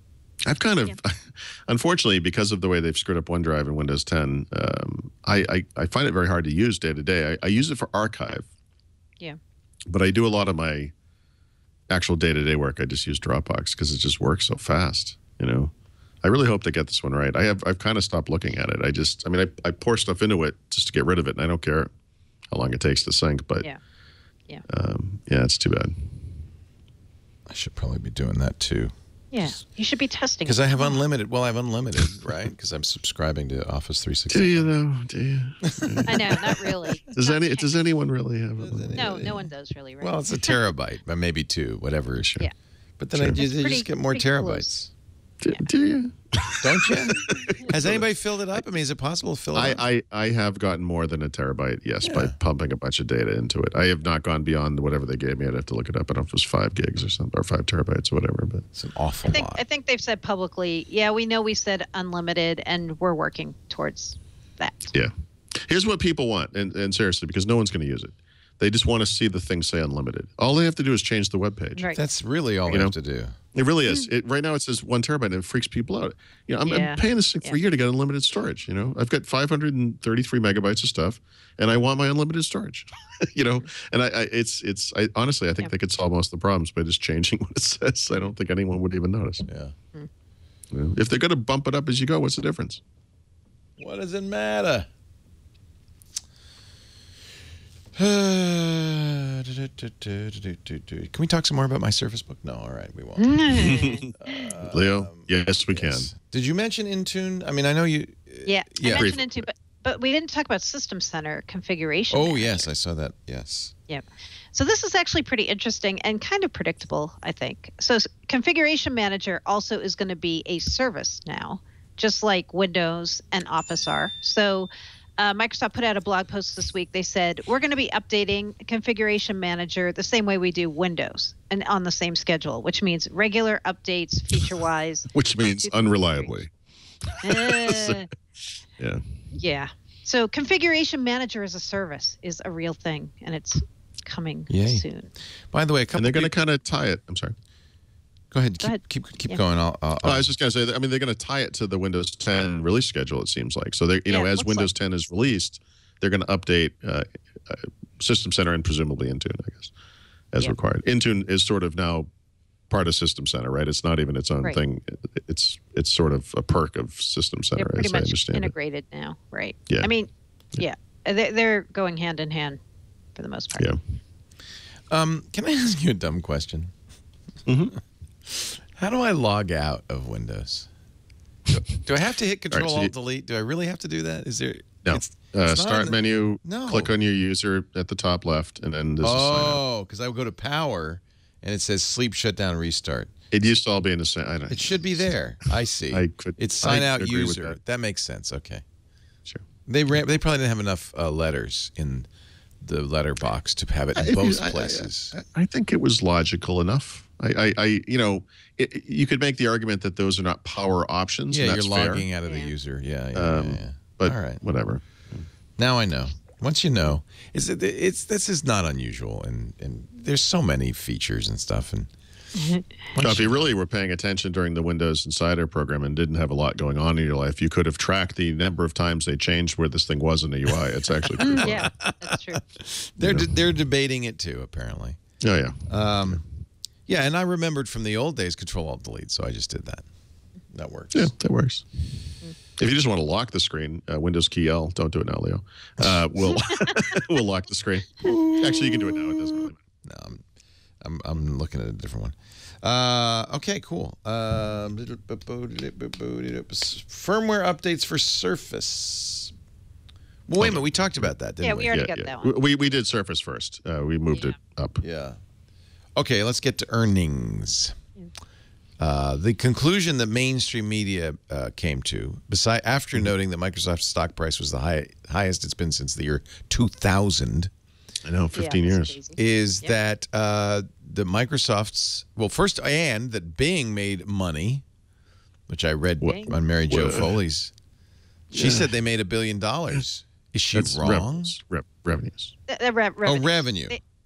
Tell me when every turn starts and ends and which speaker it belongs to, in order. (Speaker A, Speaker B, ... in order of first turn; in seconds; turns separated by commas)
Speaker A: 0.4-8.5, Speaker A: 9.9-10.9, Speaker A: 11.9-15.7, Speaker A: 16.2-21.9, Speaker A: 22.5-23.7, Speaker A: 24.7-26.3, Speaker B: 27.5-28.9, Speaker C: 29.3-31.0, Speaker B: 30.4-34.7, Speaker A: 34.3-36.4, Speaker B: 35.6-36.6, Speaker C: 36.1-37.7, Speaker A: 37.1-39.4, Speaker B: 38.6-39.4, Speaker C: 38.9-40.6, Speaker B: 40.0-42.4, Speaker A: 42.2-42.5, Speaker B: 43.0-44.9, Speaker A: 43.1-43.4, Speaker C: 43.4-44.7, Speaker A: 45.4-48.0, Speaker B: 46.6-49.8, Speaker A: 49.5-58.6, Speaker B: 52.0-52.3, Speaker B: 58.7-59.6, Speaker C: 59.3-64.9, Speaker A: 64.9-71.8, Speaker C: 71.8-72.0, Speaker B: 71.9-73.3, Speaker A: 72.7-72.9, Speaker A: 73.5-89.4, Speaker C: 76.6-77.5, Speaker B: 89.5-89.7, Speaker A: 90.7-92.8, Speaker B: 93.8-94.9, Speaker B: 98.0-109.2, Speaker C: 103.2-104.4, Speaker A: 103.6-104.0, Speaker A: 104.7-106.1, Speaker C: 108.4-112.7, Speaker A: 108.9-109.4, Speaker B: 112.1-113.7, Speaker C: 113.9-136.3, Speaker A: 135.1-136.5, Speaker A: 137.0-138.1, Speaker C: 137.2-138.1, Speaker A: 138.8-139.0, Speaker C: 139.3-145.1, Speaker B: 144.5-144.8, Speaker B: 145.5-146.3, Speaker A: 145.9-147.3, Speaker B: 148.3-150.3, Speaker C: 148.6-149.4, Speaker A: 150.0-159.7, Speaker C: 154.1-154.7, Speaker A: 160.3-162.1, Speaker A: 162.7-168.5, Speaker C: 167.6-172.6, Speaker C: 173.2-173.7, Speaker B: 174.9-176.7, Speaker A: 177.4-177.7, Speaker B: 178.3-180.7, Speaker B: 181.6-186.9, Speaker A: 182.5-182.9, Speaker A: 184.8-189.6, Speaker B: 189.0-193.1, Speaker A: 193.3-195.1, Speaker B: 194.5-198.6, Speaker A: 195.9-197.6, Speaker B: 199.7-202.1, Speaker B: 202.6-205.1, Speaker A: 204.0-212.1, Speaker B: 211.3-214.4, Speaker A: 213.1-215.2, Speaker B: 215.6-221.9, Speaker C: 222.3-222.6, Speaker B: 222.9-223.5, Speaker A: 223.0-231.7, Speaker B: 231.1-235.0, Speaker C: 231.2-232.4, Speaker A: 233.0-233.3, Speaker A: 235.2-236.2, Speaker B: 235.7-236.2, Speaker B: 236.9-239.8, Speaker B: 240.5-241.1, Speaker A: 240.9-241.6, Speaker A: 242.6-249.6, Speaker C: 246.3-246.8, Speaker B: 248.0-250.2, Speaker B: 250.8-259.3, Speaker B: 260.3-261.7, Speaker A: 260.4-261.1, Speaker C: 261.4-262.4, Speaker A: 261.7-264.8, Speaker B: 264.8-265.2, Speaker B: 265.9-267.8, Speaker B: 268.8-277.5, Speaker A: 278.0-279.0, Speaker C: 278.3-279.7, Speaker B: 279.1-284.6, Speaker B: 285.5-287.5, Speaker A: 286.0-287.1, Speaker C: 286.1-286.3, Speaker B: 288.3-291.3, Speaker A: 288.3-288.7, Speaker A: 290.5-292.3, Speaker C: 292.5-293.8, Speaker B: 293.0-293.8